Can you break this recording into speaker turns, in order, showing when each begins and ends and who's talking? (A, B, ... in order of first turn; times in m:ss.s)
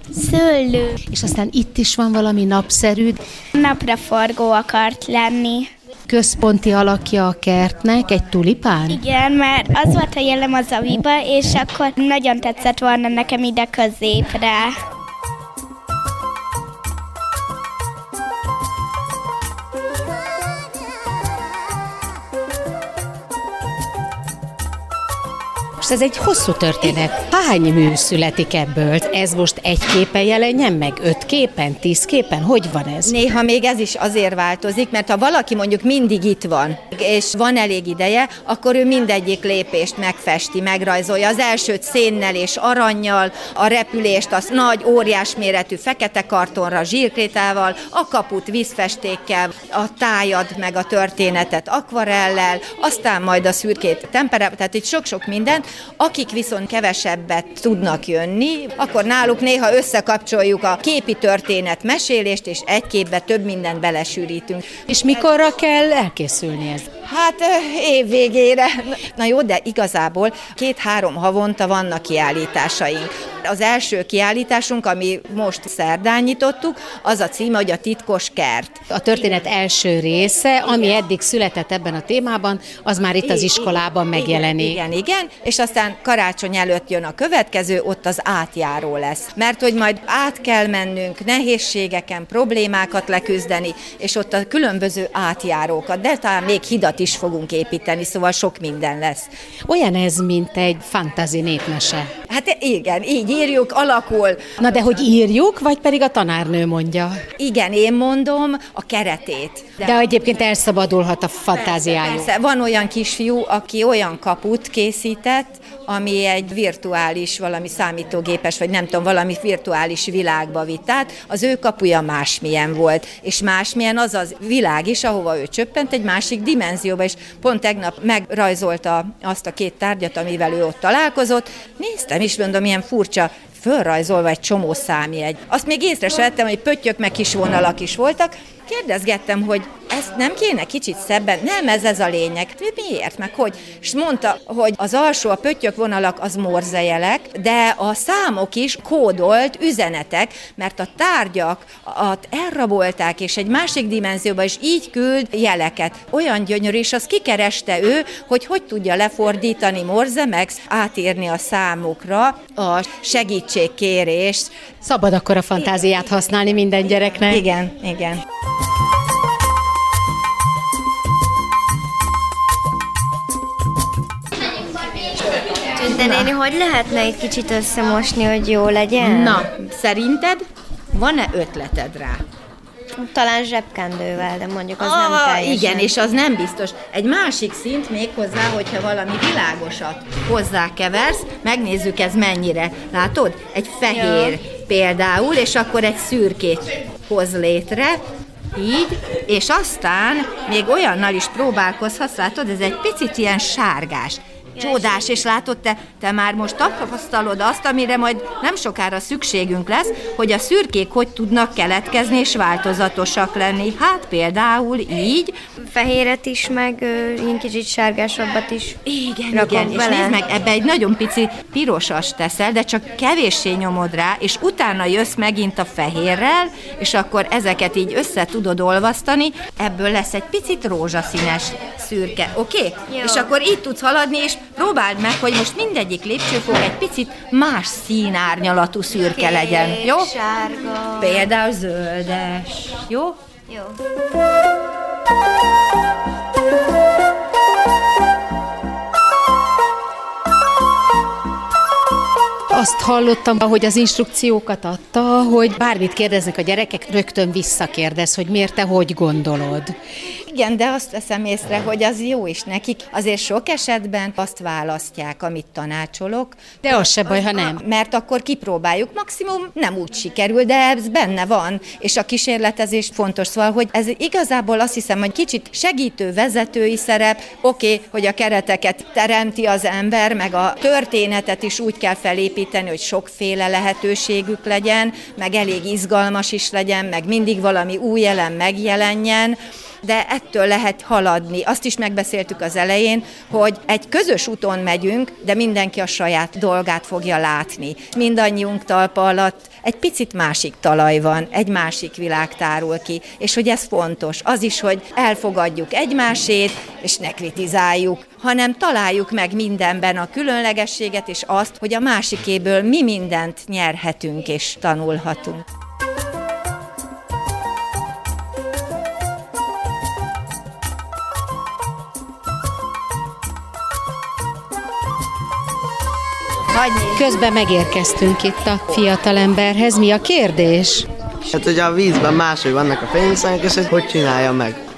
0:00.1-0:01.0 A
0:01.1-0:03.2 B
0:03.6-0:05.7 A
0:06.1-0:09.0 B
0:08.9-0:14.8 A
0:25.8-0:33.1 B
0:33.0-1:04.8 C
1:04.9-1:06.9 B
1:07.0-1:18.8 C
1:18.9-1:24.8 B
1:23.2-1:39.3 C
1:39.7-1:42.1 B
1:42.3-1:44.6 C
1:44.6-1:47.2 B
1:47.4-1:50.0 C
1:49.8-1:52.3 B
1:51.7-2:44.5 C
2:44.8-2:47.4 B
2:47.3-2:48.2 C
2:55.7-2:59.4 D
2:55.9-2:56.3 C
2:59.0-3:02.2 C
3:03.0-3:05.9 D
3:04.8-3:18.0 C
3:14.0-3:14.4 D
3:18.6-3:35.4 C
3:35.6-3:38.8 D
3:38.9-4:00.1 C
3:39.3-3:40.2 D
3:52.9-3:53.3 D
3:59.1-4:01.3 D
4:01.0-4:03.2 C
4:03.5-4:03.8 D
4:12.5-4:19.7 B
4:20.3-5:15.5 C
4:26.6-4:27.6 B
5:26.5-5:27.1 C
5:26.9-5:30.9 B
5:31.3-5:34.6 E